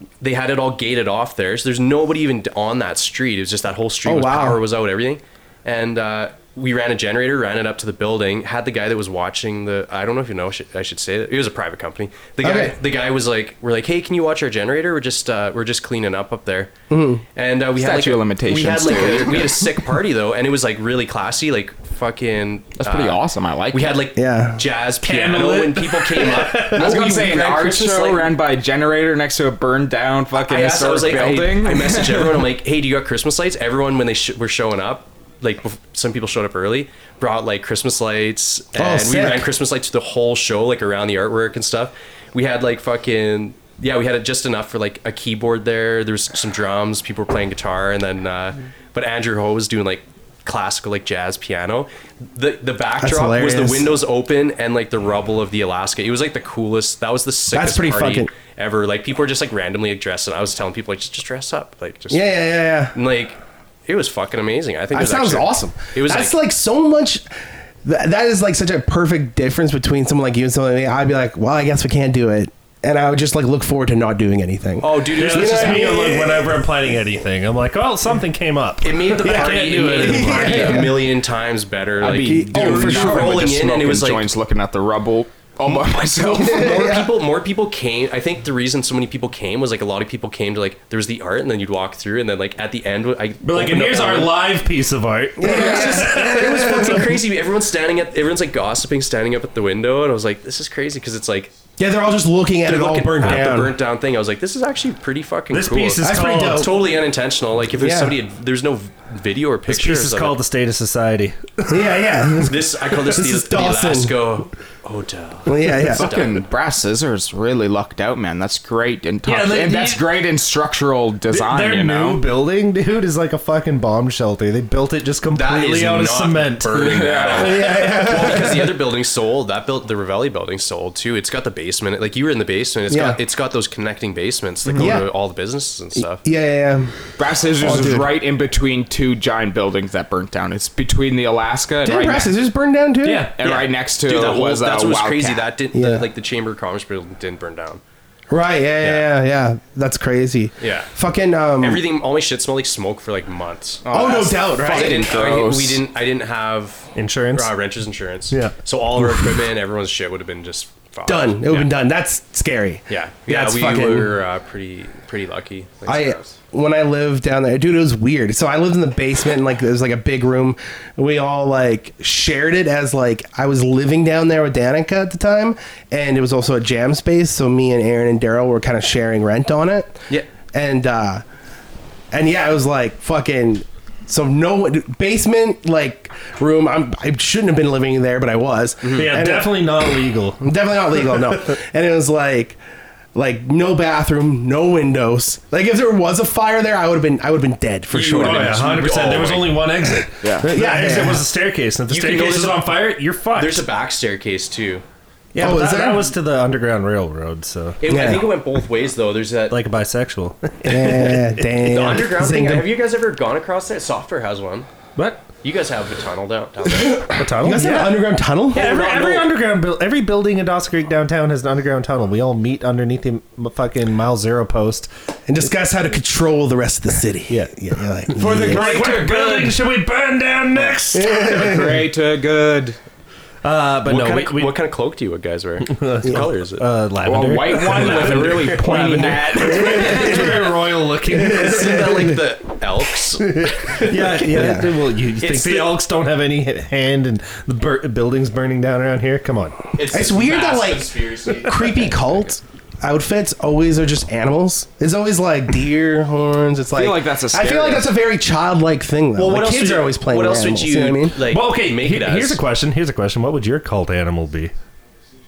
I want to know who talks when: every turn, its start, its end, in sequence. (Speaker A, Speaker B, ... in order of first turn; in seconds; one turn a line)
Speaker A: 0.2-16.7
Speaker B: 4.0-4.6
Speaker B: 12.4-12.8
Speaker B: 16.9-17.2
Speaker A: 17.4-28.3
Speaker C: 17.8-19.6
Speaker C: 22.8-23.9
Speaker B: 24.2-24.7
Speaker D: 25.0-27.0
Speaker C: 26.7-32.5
Speaker A: 30.4-66.4
Speaker B: 38.8-39.5
Speaker B: 53.0-54.0
Speaker B: 57.5-58.3
Speaker B: 62.1-63.0
Speaker B: 64.9-76.7
Speaker A: 74.8-76.2
Speaker D: 75.2-80.8
Speaker A: 78.8-84.3
Speaker B: 79.2-81.0
Speaker C: 82.0-87.0
Speaker B: 82.2-83.4
Speaker A: 85.7-94.4
Speaker B: 86.3-87.2
Speaker D: 93.4-97.1
Speaker B: 95.4-97.1
Speaker A: 95.4-101.5
Speaker B: 101.8-103.8
Speaker A: 102.7-110.4
Speaker D: 105.5-106.7
Speaker B: 106.0-106.8
Speaker B: 107.8-108.2
Speaker D: 109.7-112.5
Speaker B: 111.7-114.3
Speaker A: 112.4-116.4
Speaker B: 115.5-116.1
Speaker C: 115.9-122.2
Speaker D: 119.3-120.1
Speaker D: 121.3-127.0
Speaker A: 125.3-136.2
Speaker C: 126.7-127.8
Speaker B: 127.3-128.8
Speaker B: 132.9-133.2
Speaker C: 134.7-135.0
Speaker B: 134.8-135.1
Speaker B: 136.0-136.9
Speaker C: 137.2-142.3
Speaker B: 137.6-138.1
Speaker B: 141.8-143.3
Speaker D: 143.0-143.3
Speaker C: 143.4-145.4
Speaker A: 143.4-147.8
Speaker B: 145.7-146.0
Speaker B: 148.3-151.8
Speaker A: 148.8-149.1
Speaker A: 150.6-150.9
Speaker A: 151.6-161.7
Speaker C: 153.8-155.8
Speaker B: 153.9-155.1
Speaker D: 157.0-157.5
Speaker D: 158.3-159.4
Speaker B: 161.1-164.2
Speaker A: 162.9-166.3
Speaker B: 165.9-181.2
Speaker B: 182.1-189.8
Speaker A: 188.8-189.1
Speaker D: 188.9-190.4
Speaker B: 190.4-192.6
Speaker B: 193.2-198.7
Speaker A: 197.9-199.6
Speaker D: 198.2-203.7
Speaker C: 200.2-200.5
Speaker B: 200.5-201.2
Speaker A: 201.9-204.8
Speaker D: 205.3-207.8
Speaker B: 205.4-206.1
Speaker A: 207.8-209.6
Speaker B: 207.9-208.3
Speaker D: 209.5-211.5
Speaker B: 210.7-212.8
Speaker A: 211.6-214.7
Speaker D: 215.0-215.2
Speaker A: 215.4-217.1
Speaker B: 216.9-218.7
Speaker D: 217.1-224.9
Speaker C: 218.5-219.3
Speaker B: 225.3-228.9
Speaker C: 228.2-229.6
Speaker D: 228.2-231.6
Speaker B: 230.9-231.8
Speaker C: 231.2-232.8
Speaker D: 233.4-234.5
Speaker A: 233.8-236.7
Speaker D: 235.6-242.1
Speaker C: 237.1-240.3
Speaker A: 237.6-239.1
Speaker B: 239.4-240.6
Speaker B: 241.1-242.2
Speaker A: 241.3-244.6
Speaker D: 243.8-249.6
Speaker B: 244.2-244.7
Speaker A: 245.2-245.8
Speaker A: 249.8-252.3
Speaker B: 249.9-261.2
Speaker C: 256.8-257.9
Speaker A: 259.2-262.4
Speaker D: 261.3-264.5